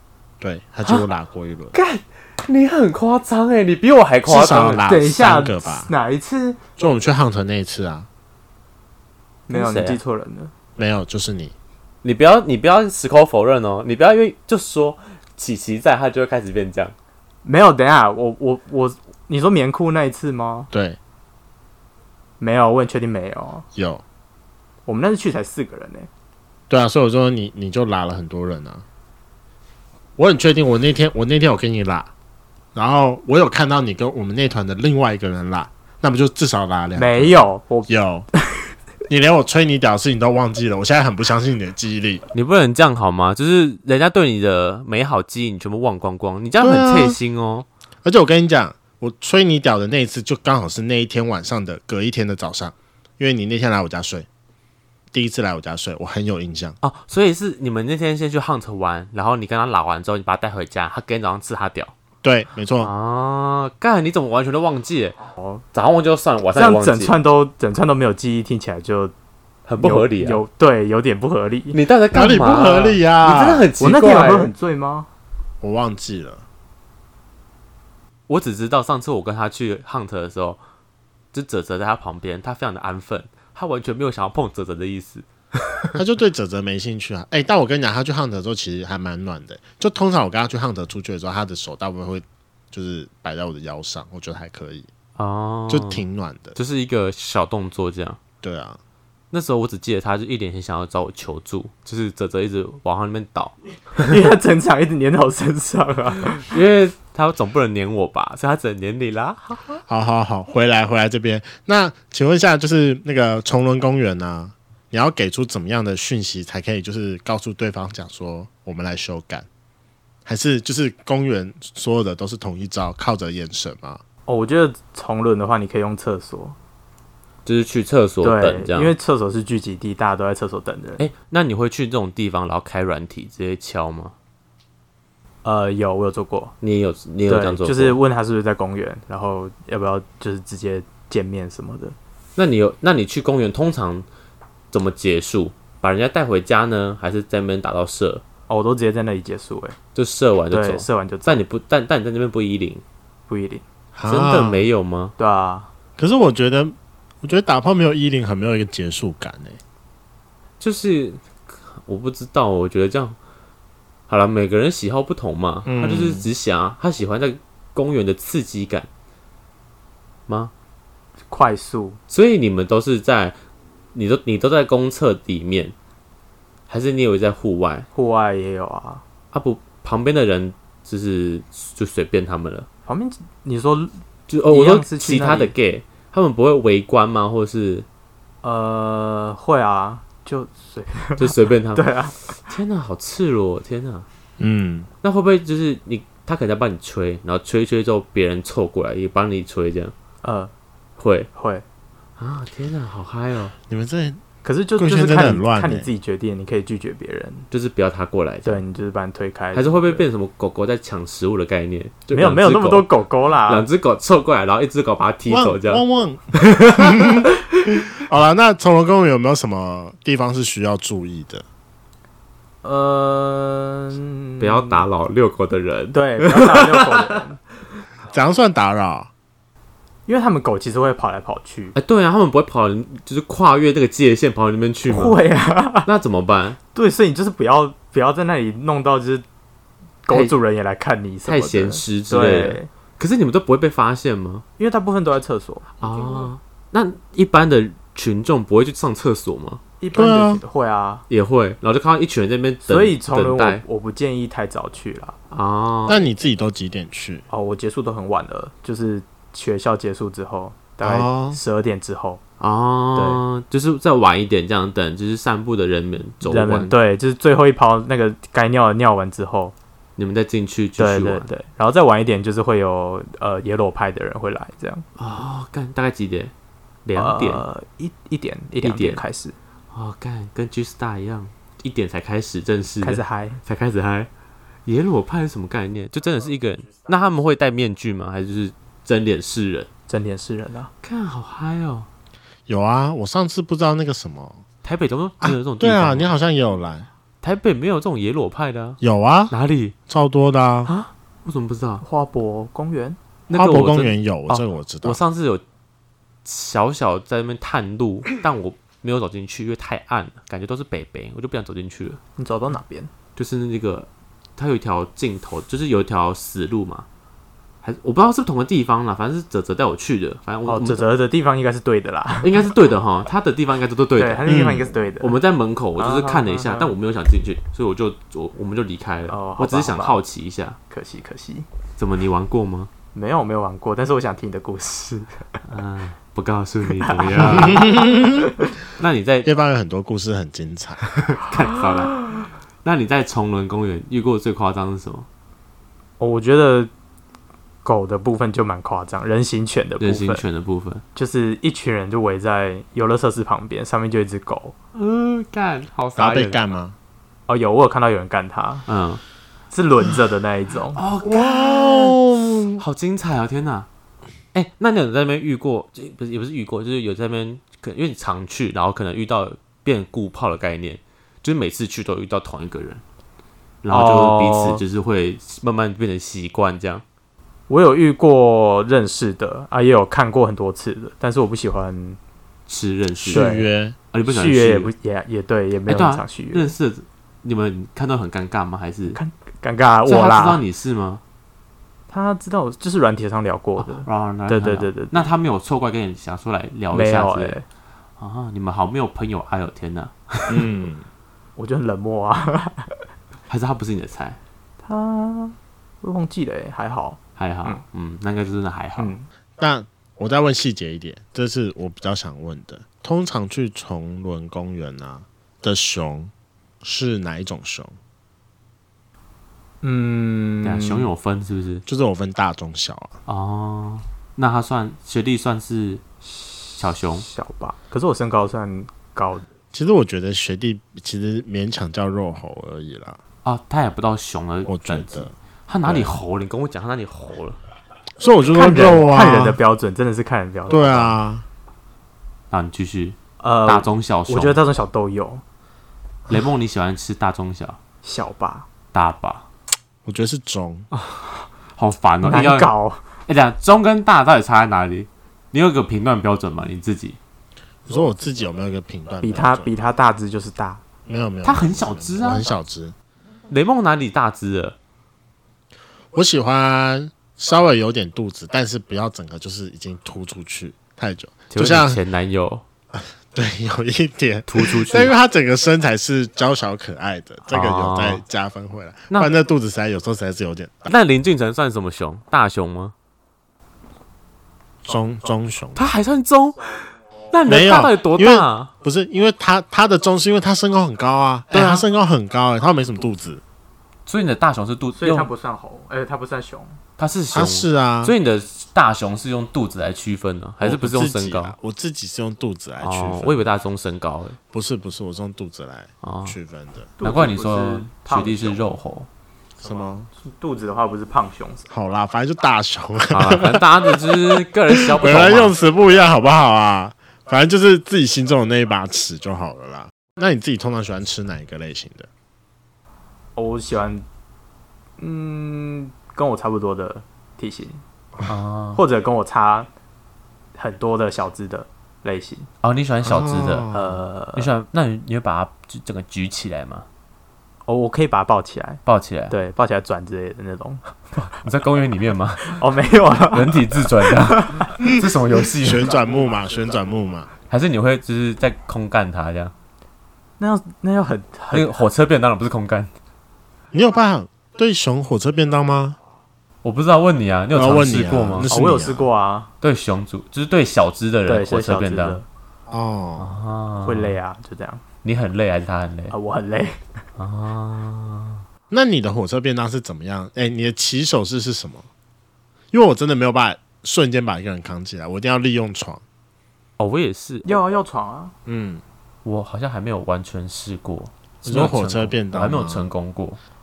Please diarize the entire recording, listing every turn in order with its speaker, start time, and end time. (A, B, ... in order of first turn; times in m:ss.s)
0:00.4-0:01.7 A
0:01.7-0:04.8 B
0:04.2-0:05.9 A
0:04.8-0:06.6 C
0:06.8-0:08.1 A
0:09.5-0:10.5 C
0:09.5-0:10.0 B
0:10.8-0:11.5 A
0:12.0-0:16.9 B
0:17.4-0:20.7 C
0:20.7-0:21.0 A
0:22.4-0:23.6 C
0:23.7-0:24.0 A
0:24.8-0:26.1 C
0:26.7-0:28.8 A
0:30.2-0:32.1 A
0:32.7-0:38.3 A
0:36.9-0:38.7 C
0:39.1-0:42.2 A
0:42.3-0:47.6 B
0:46.6-0:47.2 A
0:48.0-0:54.3 A
0:55.1-0:56.8 A
0:56.8-1:01.9 B
1:02.2-1:02.9 A
1:02.8-1:05.2 B
1:05.4-1:05.6 C
1:05.7-1:07.2 B
1:06.5-1:09.1 C
1:09.6-1:10.4 B
1:09.8-1:11.8 C
1:11.7-1:14.5 B
1:12.1-1:13.7 A
1:13.8-1:15.1 C
1:15.6-1:16.4 A
1:18.3-1:20.6 B
1:21.3-1:25.9 B
1:25.9-1:34.9 A
1:35.2-1:36.0 B
1:35.7-1:36.6 A
1:36.6-1:38.2 B
1:38.4-1:38.8 A
1:39.3-1:44.2 B
1:44.0-1:46.5 C
1:46.4-1:49.7 B
1:49.8-1:59.5 A
2:00.2-2:04.0 A
2:04.3-2:06.6 C
2:07.4-2:08.9 B
2:08.2-2:11.0 C
2:11.0-2:14.1 B
2:15.4-2:16.5 C
2:16.6-2:18.0 B
2:17.3-2:22.0 C
2:22.4-2:24.0 B
2:24.7-2:28.2 B
2:28.5-2:29.8 C
2:29.9-2:32.8 B
2:30.5-2:31.4 C
2:33.3-2:33.6 C
2:33.9-2:34.6 A
2:34.1-2:35.1 B
2:35.2-2:35.7 C
2:36.0-2:39.6 A
2:40.6-2:43.2 B
2:44.1-2:48.9 B
2:45.6-2:46.3 A
2:51.3-2:52.0 C
2:52.1-2:53.4 B
2:53.9-2:55.7 B
2:56.7-2:57.9 B
2:57.9-2:59.0 C
2:59.3-3:02.7 B
3:02.9-3:05.5 C
3:04.3-3:07.8 B
3:08.4-3:12.3 C
3:11.2-3:11.8 B
3:12.4-3:14.0 B
3:14.4-3:14.9 A
3:15.0-3:19.9 B
3:20.2-3:20.5 C
3:21.0-3:21.3 B
3:21.3-3:21.6 C
3:22.2-3:23.5 B
3:23.7-3:24.2 A
3:24.4-3:27.5 C
3:24.8-3:25.9 A
3:27.5-3:28.6 B
3:28.4-3:30.1 C
3:29.5-3:32.9 B
3:32.1-3:33.7 C
3:33.4-3:35.8 B
3:35.3-3:41.4 A
3:36.3-3:37.4 B
3:42.6-3:44.8 C
3:44.4-3:47.2 B
3:45.9-3:47.4 C
3:48.1-3:49.1 A
3:50.1-3:51.7 C
3:51.7-3:55.2 B
3:54.9-3:55.9 C
3:55.8-3:56.6 B
3:56.7-3:59.2 C
4:00.0-4:02.7 C
4:01.2-4:04.4 B
4:04.6-4:06.3 C
4:05.8-4:09.6 B
4:09.8-4:11.0 C
4:09.9-4:10.4 A
4:11.1-4:13.6 B
4:12.6-4:15.2 C
4:15.3-4:16.0 B
4:15.8-4:17.2 A
4:17.3-4:22.2 C
4:20.8-4:21.4 A
4:22.4-4:26.7 B
4:22.9-4:23.2 C
4:26.2-4:29.5 C
4:30.0-4:31.3 B
4:30.8-4:34.8 C
4:35.0-4:36.3 B
4:36.8-4:37.4 B
4:37.0-4:39.4 C
4:38.6-4:39.0 B
4:39.7-4:44.1 B
4:42.8-4:43.4 C
4:44.6-4:49.7 B
4:49.9-4:50.7 C
4:50.8-4:51.9 B
4:52.5-4:54.4 A
4:54.6-4:56.1 B
4:55.2-4:56.9 A
4:57.2-4:58.8 B
4:58.8-4:59.3 A
4:59.3-4:59.7 B
4:59.9-5:00.7 A
5:00.7-5:01.8 B
5:01.8-5:03.0 C
5:03.3-5:05.0 A
5:03.3-5:05.4 B
5:06.2-5:12.0 B
5:12.2-5:12.9 C
5:13.2-5:16.8 B
5:17.6-5:20.8 B
5:20.4-5:22.5 C
5:22.2-5:24.3 B
5:24.0-5:25.2 C
5:24.2-5:24.6 A
5:25.0-5:30.6 B
5:25.8-5:26.7 C
5:29.1-5:30.0 C
5:30.7-5:31.4 C
5:31.8-5:32.7 B
5:32.9-5:35.4 C
5:35.5-5:37.7 B
5:36.8-5:38.5 C
5:37.2-5:38.3 A
5:38.8-5:39.3 B
5:39.2-5:40.8 A
5:41.0-5:45.1 B
5:46.0-5:46.7 C
5:47.6-5:50.2 C
5:49.8-5:50.8 B
5:50.9-5:54.5 C
5:54.7-5:56.4 B
5:56.0-5:56.8 A
5:57.3-5:58.7 C
5:58.7-5:59.0 B
5:59.5-6:00.8 C
6:00.7-6:02.0 B
6:01.0-6:02.6 A
6:02.6-6:03.7 B
6:04.3-6:12.8 B
6:13.6-6:16.8 B
6:13.7-6:14.6 C
6:17.5-6:22.0 C
6:22.5-6:23.4 B
6:23.0-6:23.8 A
6:23.1-6:23.4 C
6:23.9-6:24.7 B
6:24.0-6:26.5 C
6:25.7-6:29.0 B
6:28.9-6:30.4 C
6:29.8-6:31.0 B
6:31.9-6:35.0 C
6:33.6-6:37.4 B
6:36.7-6:37.4 C
6:38.0-6:40.5 B
6:40.3-6:40.8 A
6:41.4-6:42.8 C
6:43.3-6:44.2 B
6:44.6-6:47.6 C
6:47.2-6:49.0 B
6:48.8-6:49.1 C
6:49.4-6:57.8 A
6:59.6-7:00.9 C
7:00.4-7:01.6 B
7:01.6-7:02.9 A
7:03.1-7:05.8 B
7:06.2-7:09.2 C
7:06.6-7:07.0 B
7:09.5-7:13.0 A
7:13.2-7:17.4 B
7:14.4-7:15.1 A
7:15.6-7:16.0 A
7:18.0-7:19.4 A
7:18.3-7:21.0 C
7:20.5-7:21.2 A
7:22.3-7:24.4 B
7:23.2-7:25.2 C
7:26.1-7:27.6 B
7:27.8-7:28.4 C
7:28.7-7:29.2 B
7:29.8-7:30.7 A
7:30.7-7:31.0 B
7:31.6-7:32.5 B
7:32.0-7:32.8 C
7:33.1-7:37.0 B
7:37.6-7:39.5 A
7:39.0-7:40.6 C
7:40.8-7:42.7 A
7:41.2-7:42.3 B
7:43.3-7:44.6 B
7:45.9-7:51.8 A
7:51.3-7:52.4 B
7:52.7-8:00.7 A
7:54.3-7:54.9 B
7:57.3-7:58.0 B
8:00.6-8:02.7 B
8:04.6-8:05.7 A
8:05.5-8:08.5 B
8:07.2-8:13.2 A
8:11.3-8:11.6 B
8:13.8-8:15.1 B
8:14.7-8:16.6 C
8:16.8-8:21.3 B
8:17.1-8:17.9 A
8:20.4-8:23.2 A
8:22.6-8:24.2 B
8:24.3-8:26.7 A
8:25.8-8:26.2 B
8:26.8-8:28.5 C
8:26.8-8:28.9 B
8:29.4-8:29.9 A
8:30.0-8:31.5 C
8:31.5-8:41.9 A
8:32.9-8:35.3 B
8:43.2-8:43.8 C
8:44.8-8:47.6 C
8:48.1-8:48.6 B
8:48.5-8:49.5 C
8:50.4-8:52.3 C
8:52.4-8:53.5 B
8:52.8-8:53.8 A
8:53.5-8:54.3 C
8:54.2-8:56.6 B
8:57.4-9:00.6 C
8:58.6-8:59.1 B
9:01.0-9:02.4 B
9:02.3-9:04.6 C
9:03.1-9:05.7 B
9:04.6-9:07.1 A
9:07.3-9:09.3 B
9:10.2-9:11.5 C
9:11.3-9:12.7 B
9:13.5-9:15.8 A
9:16.4-9:18.3 B
9:17.3-9:18.8 A
9:18.3-9:19.3 C
9:19.4-9:22.0 B
9:21.1-9:22.0 C
9:22.5-9:23.1 A
9:23.0-9:24.0 B
9:23.6-9:24.6 C
9:24.8-9:25.9 B
9:25.9-9:26.7 C
9:27.0-9:28.2 B
9:28.5-9:31.7 A
9:32.5-9:35.8 A
9:36.6-9:37.3 B
9:37.2-9:38.1 C
9:38.2-9:38.6 A
9:39.0-9:43.2 B
9:41.2-9:42.7 A